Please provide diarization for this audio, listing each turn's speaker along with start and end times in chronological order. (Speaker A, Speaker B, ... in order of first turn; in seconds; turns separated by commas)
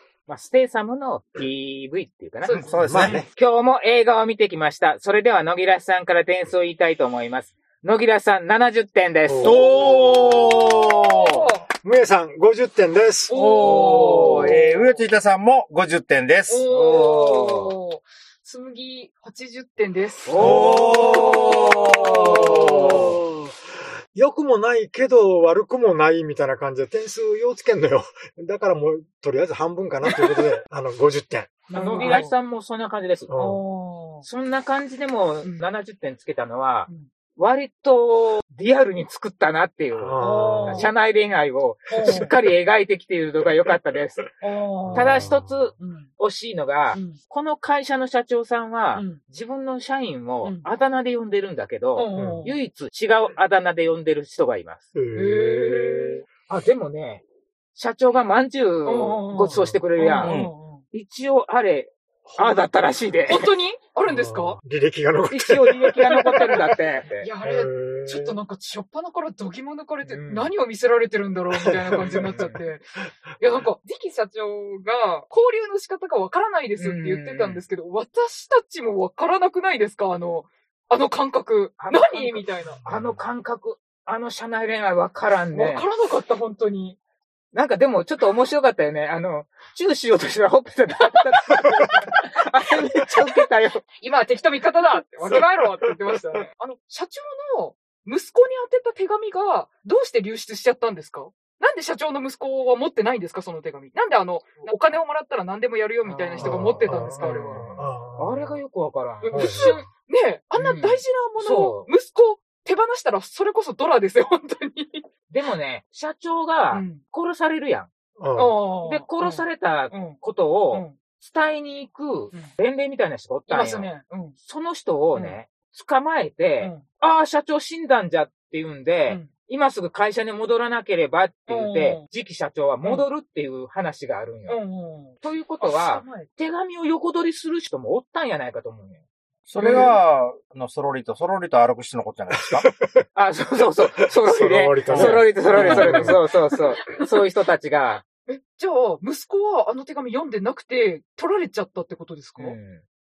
Speaker A: 0.2-9.7, Speaker B: 2.4-2.8, Speaker C: 2.5-3.2, Speaker D: 2.8-3.3, Speaker D: 9.2-10.5, Speaker C: 9.4-11.4, Speaker B: 11.2-11.7, Speaker D: 11.8-13.4, Speaker B: 13.3-15.0, Speaker C: 13.3-16.6, Speaker A: 13.6-14.6, Speaker B: 16.5-22.4, Speaker A: 16.7-17.7, Speaker A: 20.2-21.5, Speaker C: 20.4-23.1, Speaker D: 22.0-32.2, Speaker A: 22.1-22.4, Speaker B: 30.0-30.5, Speaker B: 31.7-32.3, Speaker A: 31.7-33.3, Speaker D: 33.3-33.6, Speaker B: 33.3-34.3, Speaker A: 34.2-44.3, Speaker D: 39.9-40.9, Speaker B: 40.2-40.9, Speaker B: 41.9-42.3, Speaker B: 44.4-46.1, Speaker D: 44.9-45.7, Speaker A: 44.9-54.9, Speaker B: 46.9-47.2, Speaker B: 48.9-49.2, Speaker B: 50.4-50.7, Speaker B: 51.9-52.6, Speaker D: 52.1-52.5, Speaker D: 54.9-56.2, Speaker B: 55.1-56.2, Speaker A: 56.5-63.5, Speaker B: 58.8-60.8, Speaker C: 60.2-60.5, Speaker D: 62.3-62.7, Speaker B: 63.3-64.6, Speaker D: 64.0-66.2, Speaker A: 65.3-67.3, Speaker B: 66.0-72.8, Speaker D: 67.4-68.4, Speaker A: 70.0-70.5, Speaker D: 71.5-72.5, Speaker A: 72.0-72.6, Speaker B: 73.4-82.8, Speaker A: 76.8-77.6, Speaker A: 81.8-85.8, Speaker D: 82.8-83.2, Speaker B: 85.5-87.0, Speaker A: 87.5-93.8, Speaker B: 91.1-92.1, Speaker B: 94.0-107.6, Speaker A: 106.0-109.8, Speaker D: 106.4-108.6, Speaker B: 109.2-115.0, Speaker D: 109.3-109.9, Speaker A: 110.5-111.9, Speaker A: 115.3-117.9, Speaker B: 116.7-117.0, Speaker D: 118.2-118.6, Speaker B: 118.3-121.0, Speaker A: 118.8-134.6, Speaker B: 123.5-124.3, Speaker B: 126.6-126.8, Speaker B: 131.5-132.0, Speaker B: 132.8-133.1, Speaker B: 134.5-136.3, Speaker A: 135.2-139.0, Speaker C: 139.5-142.7, Speaker B: 139.6-140.0, Speaker D: 142.5-143.0, Speaker A: 143.1-148.0, Speaker D: 144.1-146.2, Speaker B: 144.9-147.1, Speaker C: 145.6-145.9, Speaker B: 148.3-152.6, Speaker A: 152.4-152.8